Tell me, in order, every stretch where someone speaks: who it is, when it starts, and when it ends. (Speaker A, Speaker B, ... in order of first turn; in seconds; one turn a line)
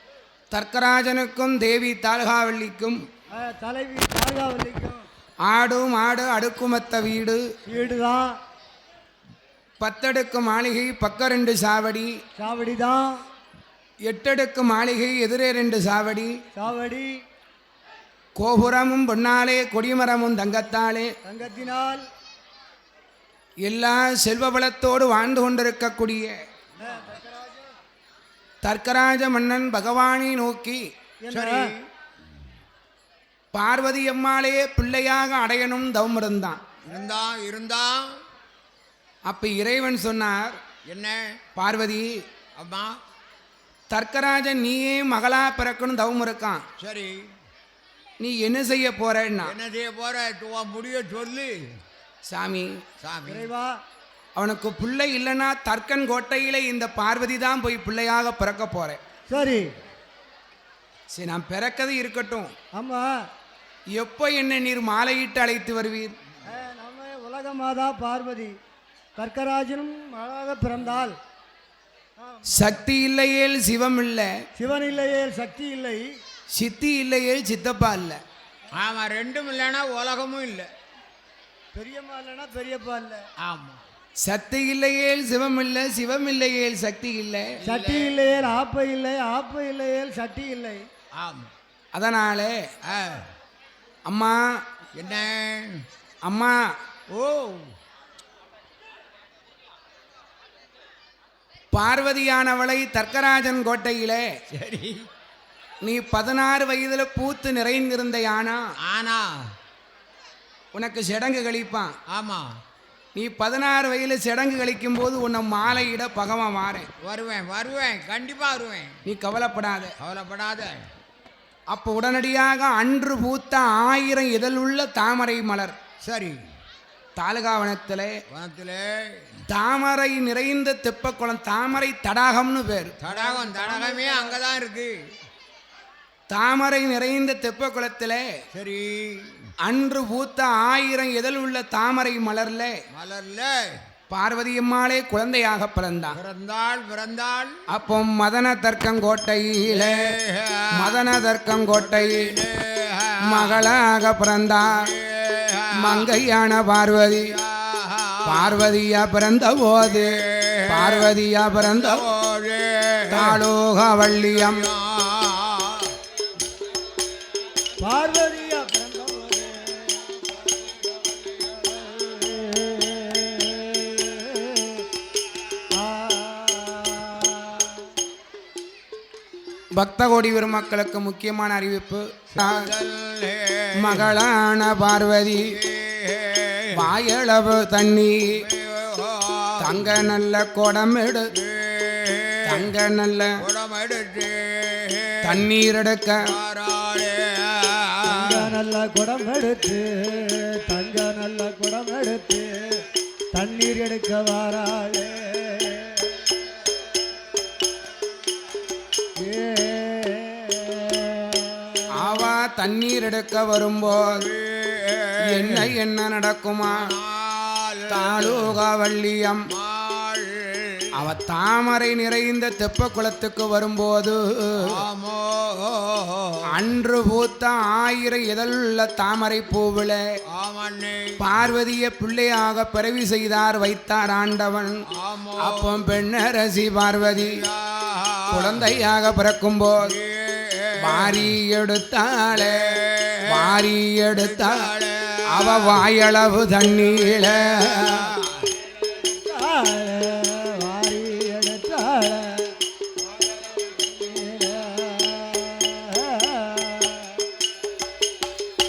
Speaker A: 0.5-3.0
Speaker B: 3.3-5.1
Speaker A: 5.4-7.5
Speaker B: 7.7-8.4
Speaker A: 9.8-12.1
Speaker B: 12.4-13.2
Speaker A: 14.0-16.4
Speaker B: 16.5-17.2
Speaker A: 18.4-21.1
Speaker B: 21.2-22.0
Speaker A: 23.6-26.3
Speaker B: 26.8-27.7
Speaker A: 28.6-30.8
Speaker B: 31.2-31.7
Speaker C: 31.3-31.9
Speaker A: 33.5-36.6
Speaker C: 36.8-38.2
Speaker A: 39.2-40.6
Speaker C: 40.8-41.4
Speaker A: 41.5-42.2
Speaker C: 42.5-43.0
Speaker A: 43.9-46.6
Speaker C: 46.8-47.3
Speaker A: 48.2-49.5
Speaker C: 49.4-51.7
Speaker A: 52.3-52.8
Speaker C: 53.0-53.5
Speaker B: 53.3-53.8
Speaker A: 54.4-59.0
Speaker B: 59.3-59.7
Speaker A: 61.1-62.5
Speaker B: 62.7-63.1
Speaker A: 63.9-66.1
Speaker B: 66.5-68.5
Speaker B: 69.2-71.2
Speaker B: 72.2-72.8
Speaker A: 72.5-74.3
Speaker B: 74.5-76.1
Speaker A: 76.5-78.2
Speaker C: 78.7-80.7
Speaker B: 81.7-83.2
Speaker C: 83.4-83.8
Speaker A: 84.2-87.6
Speaker C: 87.6-88.4
Speaker B: 87.6-90.8
Speaker C: 91.1-91.5
Speaker A: 91.9-92.6
Speaker C: 92.8-93.3
Speaker A: 94.0-94.4
Speaker C: 94.9-95.8
Speaker A: 96.2-96.5
Speaker C: 97.1-97.7
Speaker A: 101.7-104.2
Speaker C: 104.5-105.1
Speaker A: 105.8-108.6
Speaker C: 108.8-109.5
Speaker A: 110.7-111.9
Speaker C: 112.1-112.5
Speaker A: 113.1-116.9
Speaker C: 117.0-119.0
Speaker A: 119.0-119.9
Speaker C: 120.0-120.8
Speaker A: 121.7-125.7
Speaker C: 126.0-126.4
Speaker A: 127.2-128.2
Speaker C: 128.3-129.3
Speaker A: 129.5-134.3
Speaker C: 133.0-135.1
Speaker A: 136.3-138.2
Speaker C: 138.5-139.5
Speaker A: 139.6-142.7
Speaker C: 142.9-143.8
Speaker A: 144.1-146.2
Speaker C: 146.1-147.6
Speaker A: 147.7-150.1
Speaker C: 149.7-151.0
Speaker A: 150.7-152.3
Speaker C: 151.7-153.6
Speaker A: 153.2-154.9
Speaker C: 154.7-156.2
Speaker A: 155.8-157.3
Speaker C: 157.2-158.6
Speaker A: 158.2-162.0
Speaker C: 159.8-163.4
Speaker A: 163.1-164.7
Speaker C: 164.2-166.0
Speaker B: 167.8-170.2
Speaker B: 171.4-174.8
Speaker B: 175.7-177.9
Speaker A: 179.7-182.7
Speaker C: 182.3-184.1
Speaker A: 183.8-185.6
Speaker C: 185.4-186.9
Speaker A: 186.7-188.4
Speaker C: 188.4-190.1
Speaker A: 189.6-191.3
Speaker C: 191.3-192.7
Speaker A: 192.4-193.4
Speaker C: 193.4-195.4
Speaker A: 195.2-196.3
Speaker C: 196.3-198.5
Speaker B: 198.1-206.1
Speaker B: 209.2-212.1
Speaker A: 211.9-214.2
Speaker C: 214.0-215.7
Speaker A: 215.2-216.9
Speaker C: 216.6-218.6
Speaker A: 217.9-219.5
Speaker C: 219.5-220.9
Speaker A: 220.9-224.8
Speaker C: 224.6-226.4
Speaker A: 226.5-230.0
Speaker C: 230.3-231.2
Speaker A: 231.2-234.8
Speaker C: 234.9-235.9
Speaker A: 235.4-237.4
Speaker C: 237.2-238.6
Speaker A: 238.3-239.9
Speaker C: 239.8-241.3
Speaker A: 240.8-244.7
Speaker C: 242.3-245.8
Speaker A: 245.3-248.1
Speaker C: 246.6-248.5
Speaker B: 249.1-252.5
Speaker B: 253.7-257.1